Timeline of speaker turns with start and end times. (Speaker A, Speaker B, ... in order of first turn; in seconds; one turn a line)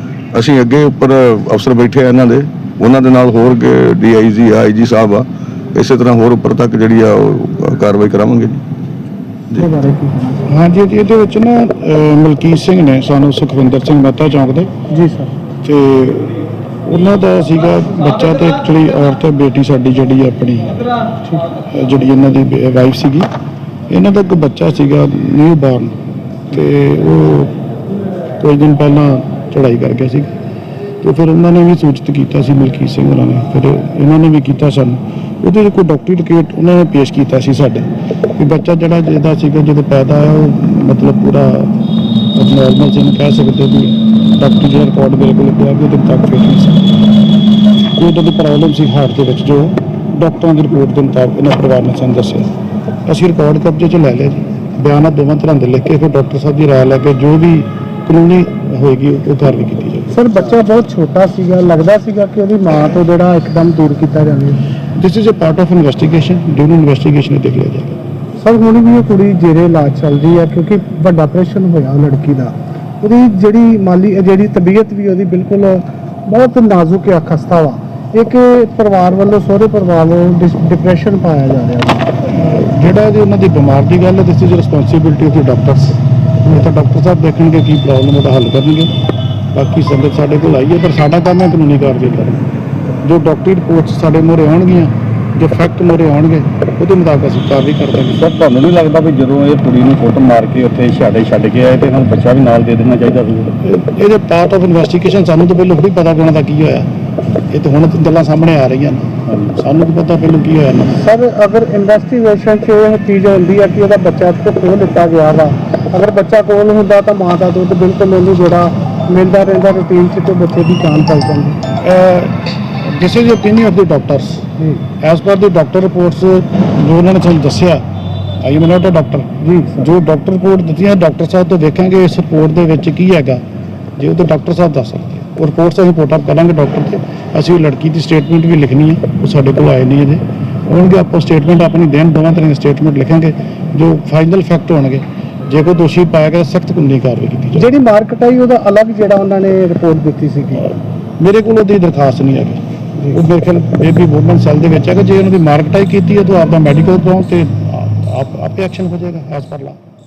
Speaker A: 0.3-8.6
Speaker B: 9.6-10.4
Speaker C: 10.5-14.7
Speaker B: 14.9-15.3
Speaker C: 15.6-20.8
Speaker C: 21.7-23.3
Speaker C: 23.9-25.9
Speaker C: 26.5-27.5
Speaker C: 28.4-30.3
Speaker C: 31.0-41.7
Speaker C: 42.4-46.9
Speaker C: 48.0-52.5
Speaker C: 53.1-60.1
Speaker B: 60.1-64.6
Speaker C: 65.0-68.0
Speaker B: 68.4-82.1
Speaker C: 82.3-88.9
Speaker C: 89.5-92.4
Speaker C: 93.0-98.2
Speaker D: 98.1-103.5
Speaker C: 103.6-106.9
Speaker C: 107.5-111.0
Speaker B: 111.0-121.6
Speaker C: 121.8-122.3
Speaker C: 122.9-124.5
Speaker B: 124.6-124.8
Speaker C: 125.0-127.8
Speaker C: 128.4-133.4
Speaker B: 129.4-129.8
Speaker C: 134.0-147.7
Speaker B: 147.6-150.7
Speaker C: 151.2-152.6
Speaker C: 153.1-159.8